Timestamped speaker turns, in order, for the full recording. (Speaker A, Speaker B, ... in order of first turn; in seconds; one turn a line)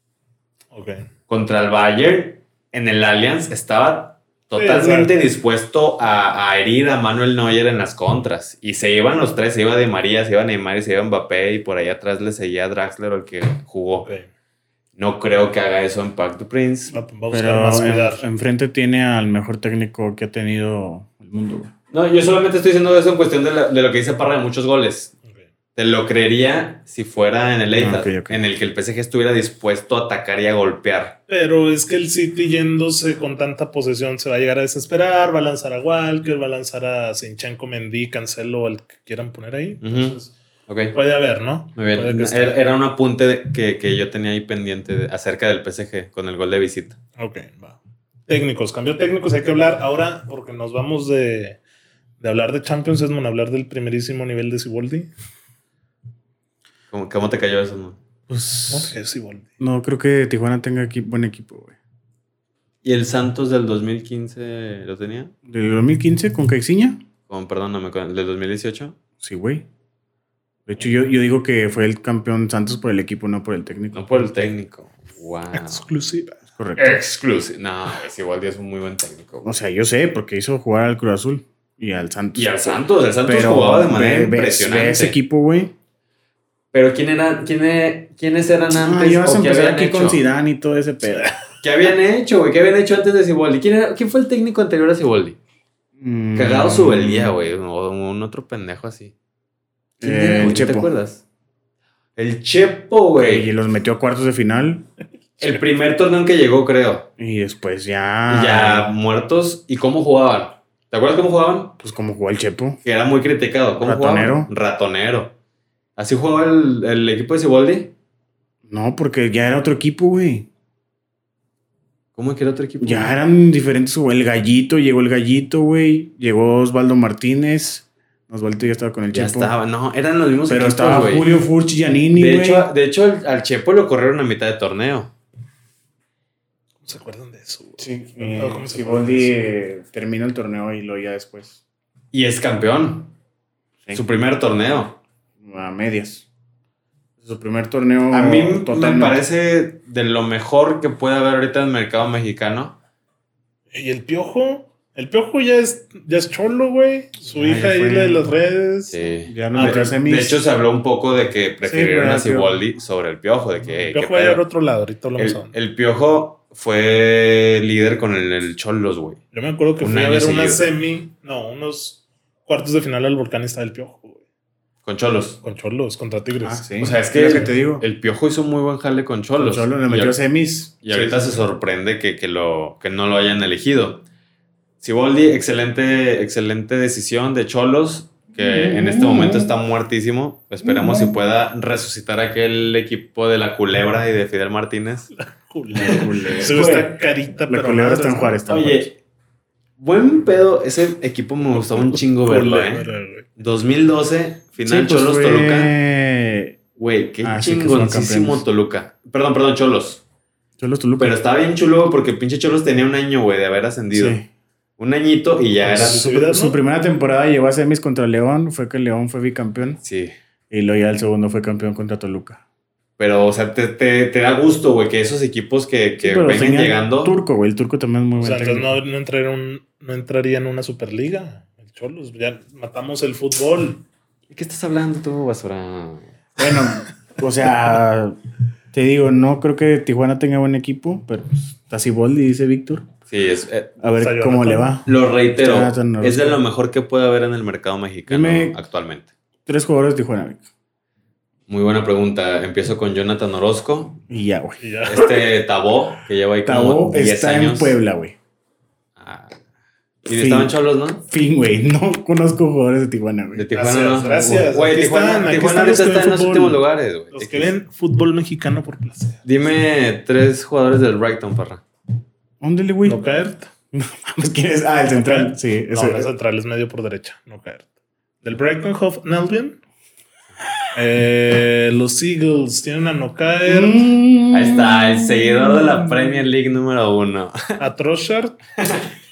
Speaker A: 0.7-1.1
Speaker B: 1.3-14.1
Speaker A: 4.5-5.1
Speaker A: 14.0-14.3
Speaker B: 14.9-16.9
Speaker A: 16.9-18.2
Speaker C: 17.3-21.7
Speaker B: 21.9-25.1
Speaker B: 25.8-31.2
Speaker C: 27.7-28.4
Speaker A: 31.3-40.4
Speaker B: 39.8-41.0
Speaker A: 40.9-42.6
Speaker B: 41.8-47.0
Speaker A: 47.2-51.6
Speaker A: 52.2-55.1
Speaker B: 56.9-58.0
Speaker C: 58.3-58.9
Speaker A: 58.7-59.5
Speaker C: 59.6-61.8
Speaker B: 62.8-65.3
Speaker C: 65.5-67.0
Speaker B: 67.3-69.0
Speaker C: 69.2-69.7
Speaker C: 70.7-74.5
Speaker B: 73.9-75.9
Speaker A: 75.5-76.4
Speaker C: 76.6-77.0
Speaker B: 76.8-79.5
Speaker C: 79.4-85.7
Speaker B: 82.3-85.1
Speaker B: 86.7-90.2
Speaker C: 88.7-91.4
Speaker B: 91.6-95.4
Speaker C: 96.0-97.4
Speaker B: 96.3-99.1
Speaker C: 100.0-100.9
Speaker B: 100.0-101.2
Speaker B: 102.2-103.5
Speaker C: 103.2-104.9
Speaker B: 105.4-107.1
Speaker C: 107.2-108.9
Speaker B: 108.3-111.8
Speaker C: 111.8-112.8
Speaker B: 112.8-115.3
Speaker C: 113.8-114.5
Speaker B: 116.0-117.9
Speaker C: 118.7-120.5
Speaker B: 122.1-123.1
Speaker C: 122.8-129.5
Speaker B: 129.1-131.4
Speaker C: 130.4-132.7
Speaker B: 132.1-135.1
Speaker A: 136.8-139.3
Speaker C: 137.8-141.6
Speaker B: 142.1-143.1
Speaker B: 143.9-145.0
Speaker C: 145.4-146.3
Speaker C: 147.2-149.2
Speaker B: 148.1-152.8
Speaker A: 153.7-159.0
Speaker C: 157.3-158.3
Speaker B: 158.9-164.4
Speaker C: 159.2-160.4
Speaker A: 159.5-160.0
Speaker C: 161.6-162.7
Speaker A: 163.9-165.5
Speaker B: 165.2-169.2
Speaker A: 169.3-174.2
Speaker B: 169.8-170.6
Speaker B: 174.8-175.4
Speaker A: 175.4-176.7
Speaker C: 176.4-177.8
Speaker B: 176.8-180.2
Speaker C: 179.4-181.1
Speaker B: 180.8-184.0
Speaker B: 184.8-195.1
Speaker C: 188.4-189.5
Speaker C: 190.6-191.2
Speaker A: 195.2-198.4
Speaker C: 195.7-196.9
Speaker C: 197.5-198.9
Speaker B: 198.5-198.9
Speaker B: 199.8-205.7
Speaker A: 201.7-203.3
Speaker C: 204.6-206.6
Speaker B: 206.8-210.0
Speaker C: 207.2-208.4
Speaker C: 210.6-211.2
Speaker B: 211.0-214.2
Speaker C: 213.9-214.2
Speaker B: 214.8-216.0
Speaker A: 215.6-216.6
Speaker C: 215.6-219.8
Speaker B: 219.8-220.1
Speaker C: 220.5-222.4
Speaker B: 223.0-227.2
Speaker C: 226.0-228.8
Speaker A: 228.2-233.8
Speaker B: 234.3-236.1
Speaker C: 236.4-238.2
Speaker C: 238.7-242.9
Speaker B: 243.1-243.8
Speaker C: 243.8-246.4
Speaker A: 244.0-244.8
Speaker B: 244.8-249.1
Speaker C: 248.1-248.6
Speaker C: 249.4-250.5
Speaker B: 251.5-254.0
Speaker C: 254.1-254.6
Speaker A: 254.6-255.2
Speaker B: 254.9-257.8
Speaker C: 256.4-258.1
Speaker B: 259.0-259.4
Speaker B: 260.1-261.0
Speaker C: 260.1-260.5
Speaker C: 261.1-263.4
Speaker B: 263.3-267.5
Speaker A: 263.5-266.6
Speaker A: 267.1-269.2
Speaker B: 269.2-271.6
Speaker C: 272.4-273.0
Speaker A: 272.8-273.5
Speaker C: 273.7-276.1
Speaker A: 274.9-277.7
Speaker A: 278.2-279.6
Speaker A: 280.7-283.9
Speaker C: 283.4-286.2
Speaker B: 284.3-287.6
Speaker A: 287.6-288.4
Speaker B: 288.6-288.9